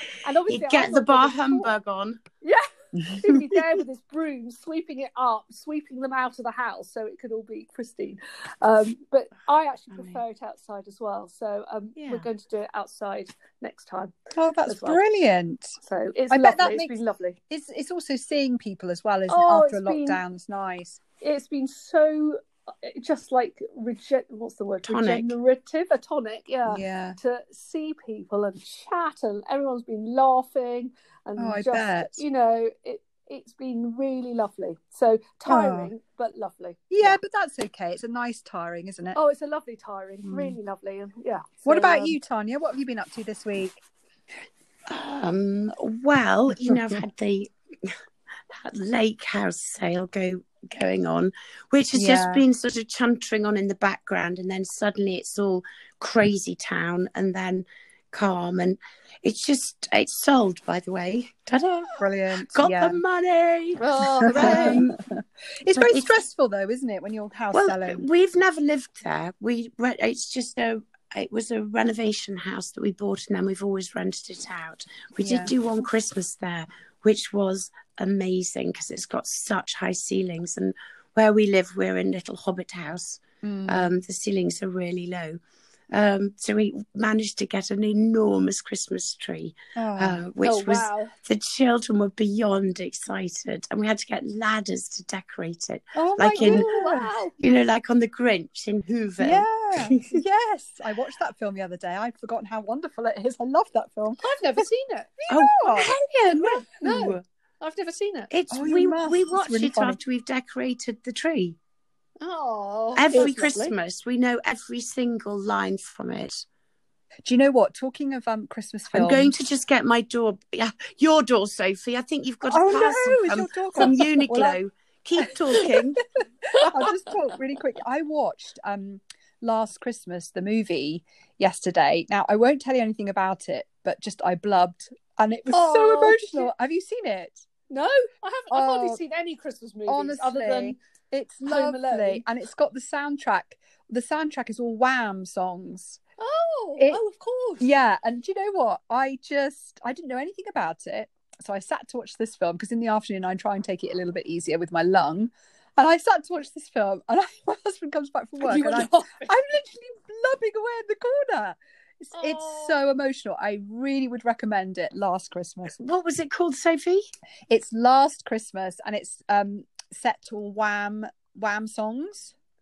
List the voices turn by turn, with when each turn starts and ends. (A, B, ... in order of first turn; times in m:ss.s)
0:00.2-0:01.7 A
0:00.5-0:02.2 B
0:02.4-0:14.1 A
0:03.0-0:03.6 C
0:09.9-0:10.2 B
0:12.0-0:12.3 B
0:14.4-0:15.8 C
0:14.6-0:15.0 A
0:15.8-0:17.4 A
0:16.3-0:16.9 C
0:17.5-0:21.0 C
0:19.3-0:20.2 A
0:21.2-0:37.2 A
0:24.9-0:25.4 B
0:26.7-0:27.2 C
0:31.4-0:32.2 C
0:35.5-0:35.9 C
0:36.9-0:39.2 C
0:39.1-0:42.2 A
0:40.2-0:40.6 C
0:41.6-0:43.8 C
0:44.9-0:48.0 B
0:46.7-0:47.0 C
0:48.5-1:05.0 B
0:51.9-0:52.4 C
1:02.0-1:03.0 C
1:03.8-1:04.8 A
1:04.2-1:08.0 C
1:05.7-1:06.2 B
1:07.5-1:25.4 B
1:15.2-1:15.5 C
1:23.4-1:23.9 C
1:25.9-1:36.6 B
1:29.8-1:30.2 C
1:30.4-1:31.1 A
1:36.0-1:37.1 C
1:36.3-1:37.4 A
1:37.4-1:40.2 B
1:39.2-1:44.6 C
1:44.2-1:45.2 A
1:45.2-1:45.9 C
1:45.3-1:47.2 B
1:45.8-1:48.3 A
1:48.3-1:51.6 B
1:48.5-1:50.0 C
1:52.2-1:53.7 A
1:53.0-1:56.4 B
1:57.2-1:59.3 C
1:58.9-2:06.0 B
2:02.5-2:04.6 C
2:06.5-2:06.9 A
2:06.5-2:17.4 C
2:15.5-2:16.5 A
2:17.7-2:20.8 A
2:18.5-2:19.0 C
2:19.9-2:26.0 C
2:21.4-2:22.2 A
2:26.2-2:27.6 A
2:27.6-2:45.8 C
2:38.4-2:39.3 A
2:42.2-2:42.8 A
2:45.8-2:47.0 B
2:47.5-2:52.4 C